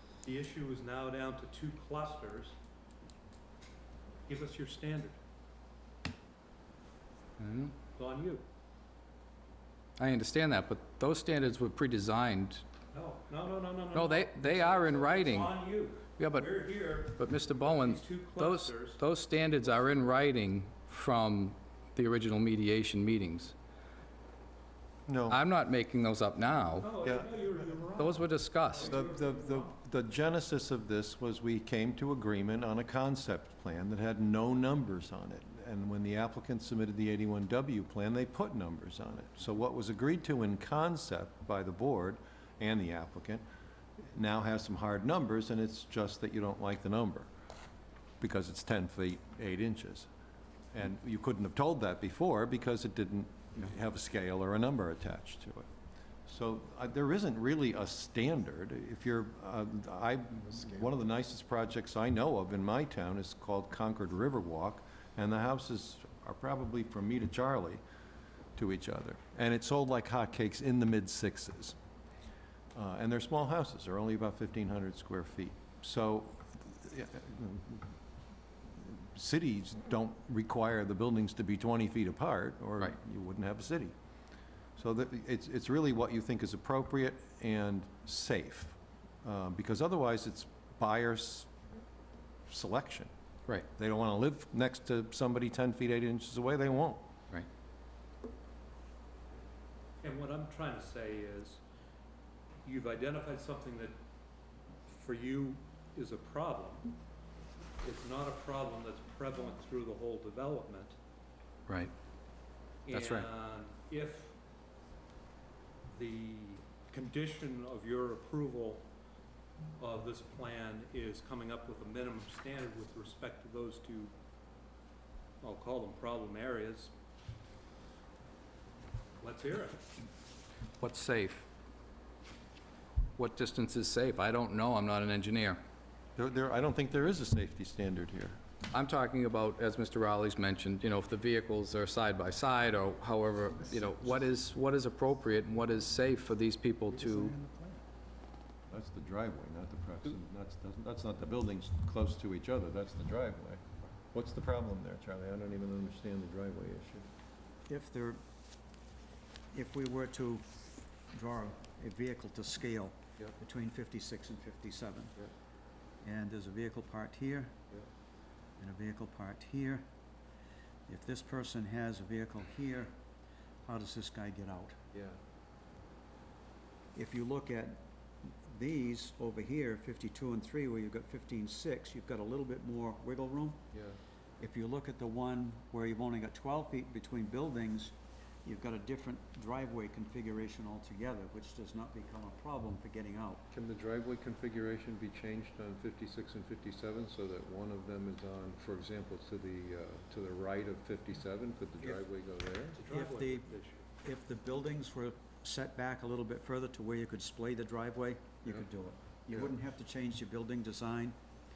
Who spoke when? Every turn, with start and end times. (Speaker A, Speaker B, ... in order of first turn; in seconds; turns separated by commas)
Speaker A: 0.2-2.6, Speaker A: 4.3-5.2, Speaker B: 7.4-7.7, Speaker A: 8.0-8.4, Speaker B: 10.0-12.6, Speaker A: 12.9-19.0, Speaker B: 13.9-15.5, Speaker B: 16.2-23.5, Speaker C: 25.1-25.4, Speaker B: 25.3-26.9, Speaker A: 26.8-29.7, Speaker C: 27.0-27.3, Speaker B: 28.0-28.9, Speaker C: 28.9-43.4, Speaker C: 44.1-47.3, Speaker C: 48.2-50.1, Speaker C: 50.7-55.7, Speaker C: 56.3-67.8, Speaker C: 68.6-71.8, Speaker C: 72.8-77.9, Speaker C: 78.8-83.9, Speaker C: 84.8-91.5, Speaker C: 92.5-93.1, Speaker C: 93.7-97.0, Speaker A: 100.0-101.6, Speaker A: 102.7-104.0, Speaker A: 104.9-106.9, Speaker A: 107.8-111.0, Speaker A: 112.9-114.4, Speaker B: 112.9-113.3, Speaker A: 115.9-118.9, Speaker A: 119.8-124.1, Speaker A: 125.4-126.9, Speaker A: 129.2-129.9, Speaker B: 130.8-131.4, Speaker B: 133.2-135.6, Speaker C: 136.2-138.4, Speaker B: 138.7-147.3, Speaker D: 147.1-147.8, Speaker C: 148.7-157.1, Speaker D: 157.7-158.2, Speaker D: 159.5-160.5, Speaker D: 161.1-165.2, Speaker D: 166.0-167.6, Speaker D: 168.6-169.8, Speaker D: 170.9-172.9, Speaker D: 173.7-174.8, Speaker C: 174.9-175.2, Speaker D: 176.9-183.7, Speaker D: 184.4-187.9, Speaker D: 188.4-193.4, Speaker C: 193.5-202.8, Speaker A: 202.8-203.9, Speaker D: 202.9-203.5, Speaker D: 204.0-211.2